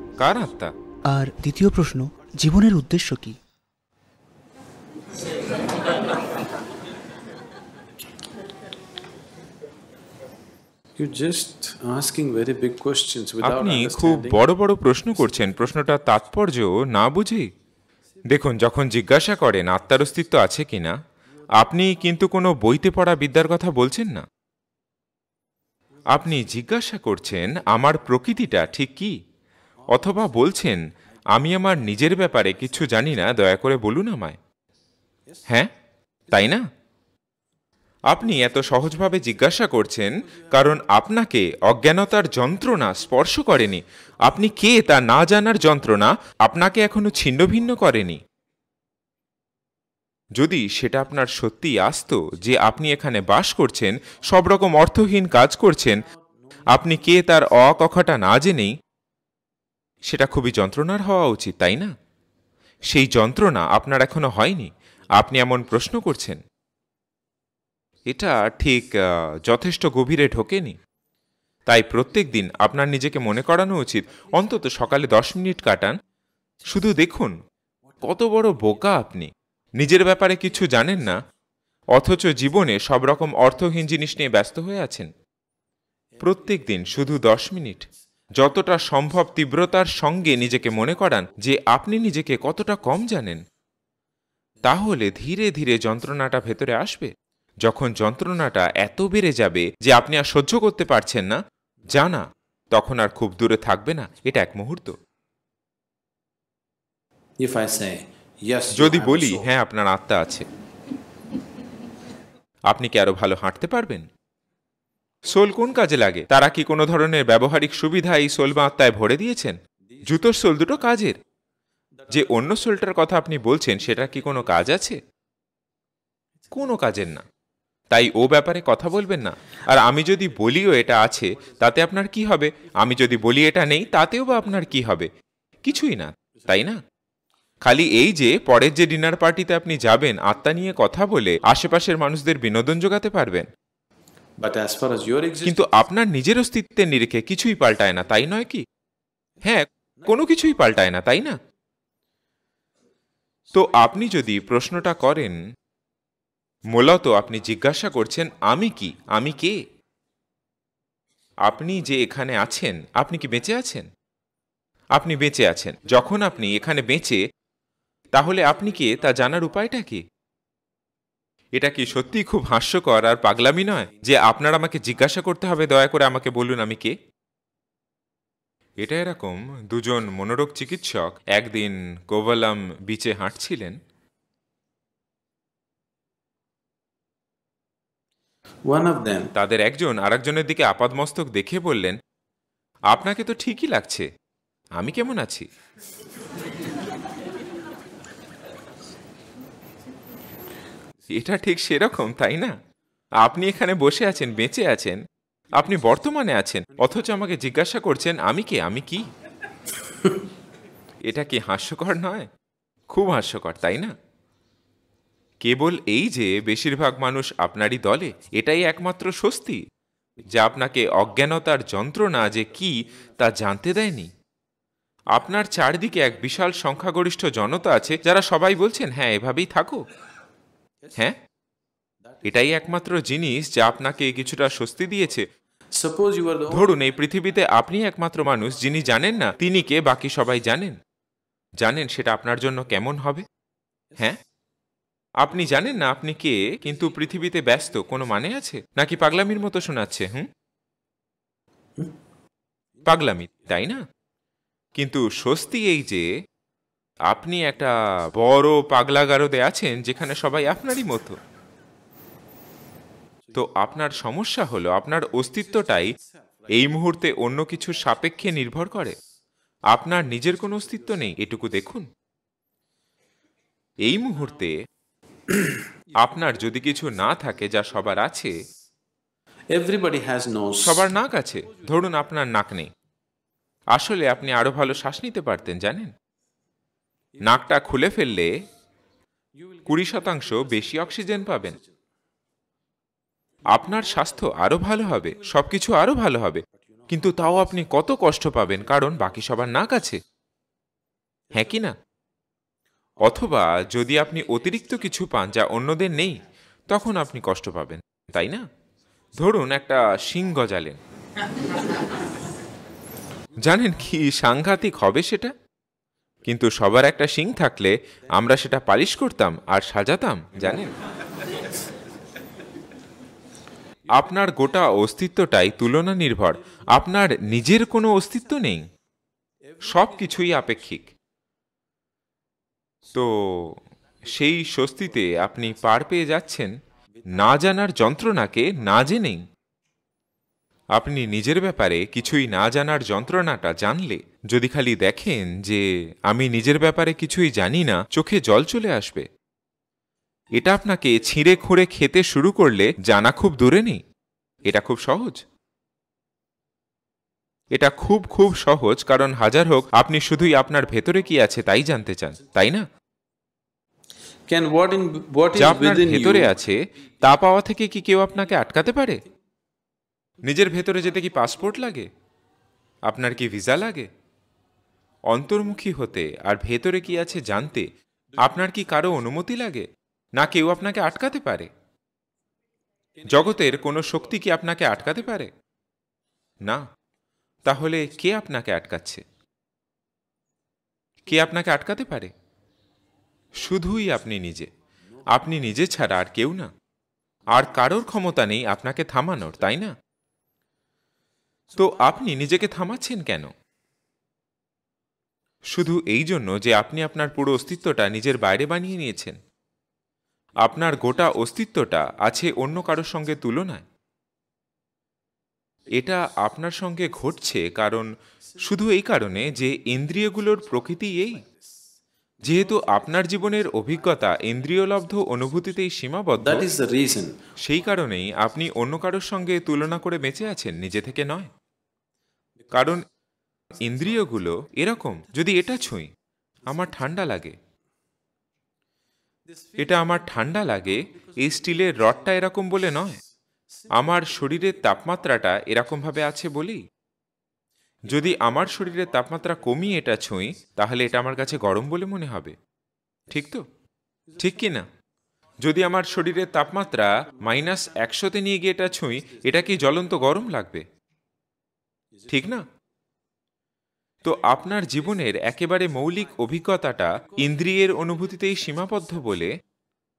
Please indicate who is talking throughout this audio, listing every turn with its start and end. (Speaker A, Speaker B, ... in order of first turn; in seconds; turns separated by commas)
Speaker A: 0.2-0.7, Speaker B: 1.1-3.4, Speaker C: 11.1-14.3, Speaker A: 13.4-17.5, Speaker A: 18.3-20.9, Speaker A: 21.6-24.2, Speaker A: 26.1-29.1, Speaker A: 29.9-30.8, Speaker A: 31.3-34.4, Speaker A: 36.3-36.6, Speaker A: 38.1-48.2, Speaker A: 50.4-56.0, Speaker A: 56.7-58.7, Speaker A: 60.1-61.9, Speaker A: 62.9-66.4, Speaker A: 68.1-68.9, Speaker A: 69.5-70.8, Speaker A: 71.7-75.9, Speaker A: 76.7-77.3, Speaker A: 78.0-79.3, Speaker A: 79.8-81.2, Speaker A: 82.0-85.1, Speaker A: 86.2-87.9, Speaker A: 88.4-93.4, Speaker A: 94.6-97.1, Speaker A: 97.6-101.4, Speaker A: 101.9-104.9, Speaker C: 107.4-109.5, Speaker A: 108.8-110.5, Speaker A: 112.7-114.1, Speaker A: 115.3-121.2, Speaker A: 122.1-125.0, Speaker A: 126.5-127.2, Speaker A: 127.9-135.1, Speaker A: 135.6-136.8, Speaker A: 137.6-143.5, Speaker C: 144.4-145.5, Speaker A: 145.4-148.6, Speaker A: 149.4-151.3, Speaker A: 153.5-155.4, Speaker A: 156.7-159.6, Speaker A: 161.5-163.9, Speaker A: 165.0-167.2, Speaker A: 168.1-170.0, Speaker A: 171.6-176.9, Speaker A: 178.8-183.8, Speaker C: 188.7-189.3, Speaker A: 189.3-192.0, Speaker A: 192.9-194.1, Speaker A: 194.8-195.5, Speaker A: 201.1-202.5, Speaker A: 203.2-205.0, Speaker A: 205.6-209.1, Speaker A: 211.1-212.3, Speaker A: 212.9-213.9, Speaker A: 215.4-219.6, Speaker A: 220.3-224.1, Speaker A: 225.1-229.8, Speaker A: 232.2-235.3, Speaker C: 235.9-236.6, Speaker A: 236.5-240.8, Speaker A: 241.6-243.2, Speaker A: 245.2-250.3, Speaker A: 252.8-253.8, Speaker A: 254.8-256.1, Speaker A: 257.1-261.2, Speaker A: 263.3-265.9, Speaker A: 266.5-268.9, Speaker A: 269.7-271.9, Speaker A: 273.9-274.5, Speaker C: 275.3-275.7, Speaker A: 276.0-278.3, Speaker C: 279.6-280.7, Speaker A: 280.6-282.7, Speaker A: 283.7-285.9, Speaker A: 287.2-288.3, Speaker A: 289.7-291.6, Speaker A: 293.5-300.0, Speaker A: 301.3-301.7, Speaker A: 303.0-308.4, Speaker A: 309.2-310.8, Speaker A: 313.4-315.3, Speaker A: 316.3-320.7, Speaker A: 323.9-328.6, Speaker A: 329.6-330.9, Speaker A: 332.9-336.5, Speaker A: 337.1-339.2, Speaker A: 340.8-349.1, Speaker A: 350.4-353.8, Speaker A: 354.5-355.2, Speaker A: 357.5-362.6, Speaker C: 364.3-366.3, Speaker A: 365.4-369.0, Speaker A: 370.2-371.9, Speaker A: 372.9-373.9, Speaker A: 375.1-377.7, Speaker A: 378.2-379.7, Speaker A: 380.2-381.5, Speaker A: 383.1-385.3, Speaker A: 387.5-389.0, Speaker A: 391.1-392.1, Speaker A: 393.4-394.5, Speaker A: 395.1-396.5, Speaker A: 397.3-399.7, Speaker A: 401.6-403.3, Speaker A: 405.5-409.2, Speaker A: 410.4-413.6, Speaker A: 415.8-421.3, Speaker A: 422.2-426.4, Speaker C: 426.2-427.1, Speaker A: 427.4-431.3, Speaker A: 432.5-432.8, Speaker A: 433.6-435.9, Speaker A: 436.5-437.4, Speaker A: 439.6-443.0, Speaker A: 443.7-446.6, Speaker A: 447.9-452.4, Speaker A: 453.1-453.4, Speaker A: 454.2-454.6, Speaker A: 455.4-460.6, Speaker A: 462.1-462.4, Speaker A: 464.0-469.3